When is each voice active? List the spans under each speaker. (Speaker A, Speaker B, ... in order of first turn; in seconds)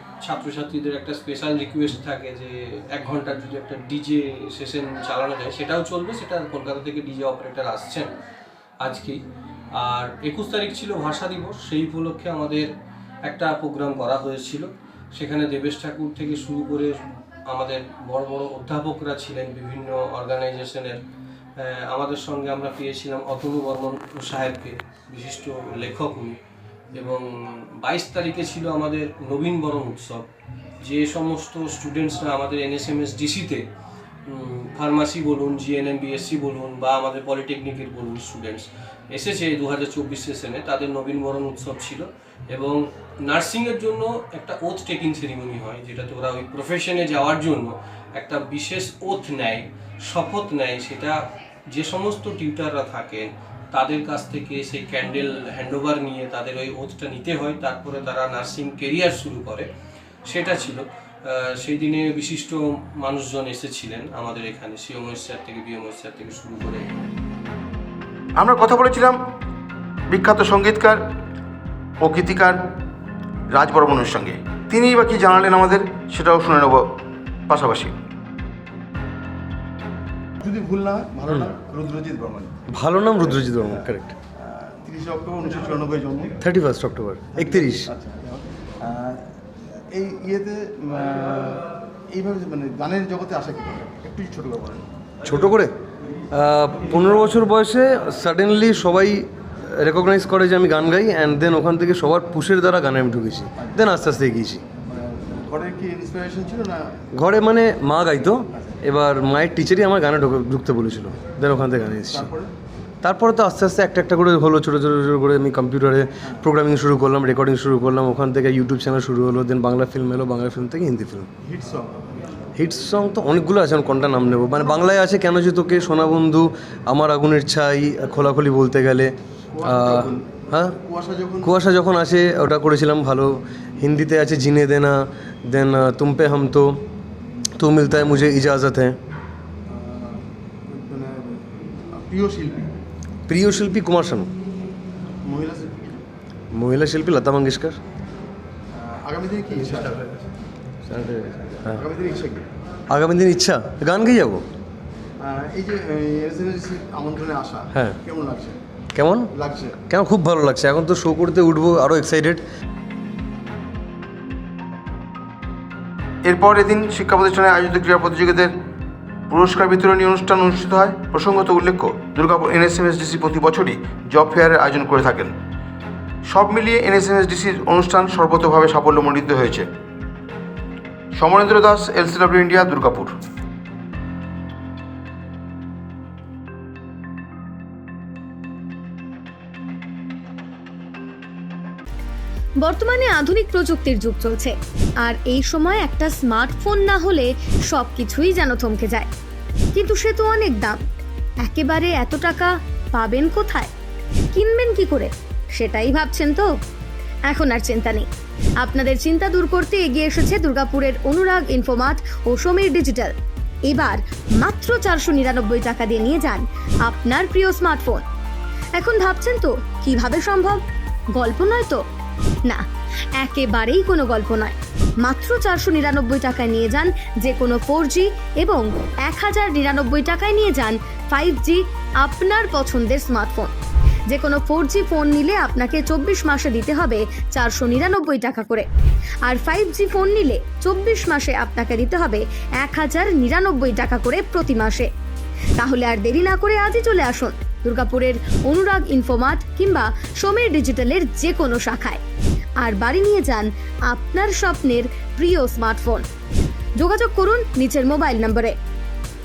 Speaker A: 0.2-8.1, 8.8-9.2, 9.8-12.7, 13.2-16.9, 17.5-21.0, 21.6-26.4, 26.9-27.3, 27.8-30.3, 30.8-33.6, 34.3-51.1, 51.7-59.6, 60.3-66.9
Speaker B: 68.4-69.2, 70.1-71.0, 72.0-72.6, 73.5-76.8, 77.5-77.9, 80.4-82.5, 84.4-86.3, 88.0-89.1, 89.9-90.5, 92.1-94.7, 105.5-106.7, 156.9-157.2, 166.2-168.5, 169.3-175.3, 176.2-179.7, 181.1-183.1
Speaker C: 80.8-81.5, 84.4-86.3, 87.3-89.1, 90.0-94.8, 104.8-106.7, 112.1-112.4, 121.4-122.1, 129.5-131.5, 139.7-142.7, 145.2-146.0, 148.7-150.0, 151.8-152.5, 155.2-158.6, 159.3-159.8
Speaker D: 82.7-84.1, 86.4-87.9, 95.2-95.7, 96.3-104.6, 107.2-112.3, 113.0-121.3, 122.6-130.8, 131.4-136.8, 137.6-139.0, 143.3-144.3, 146.5-147.8, 150.9-151.8, 152.9-154.4, 157.7-158.0, 158.9-159.3, 159.9-162.4
Speaker E: 192.6-199.1, 199.7-200.8, 201.4-203.7, 204.3-206.5, 207.3-208.1, 208.6-213.1, 213.7-218.0, 218.8-220.6, 221.2-221.8, 223.2-233.5, 234.1-238.7, 239.2-244.9, 245.6-252.0, 252.6-256.0, 256.8-258.5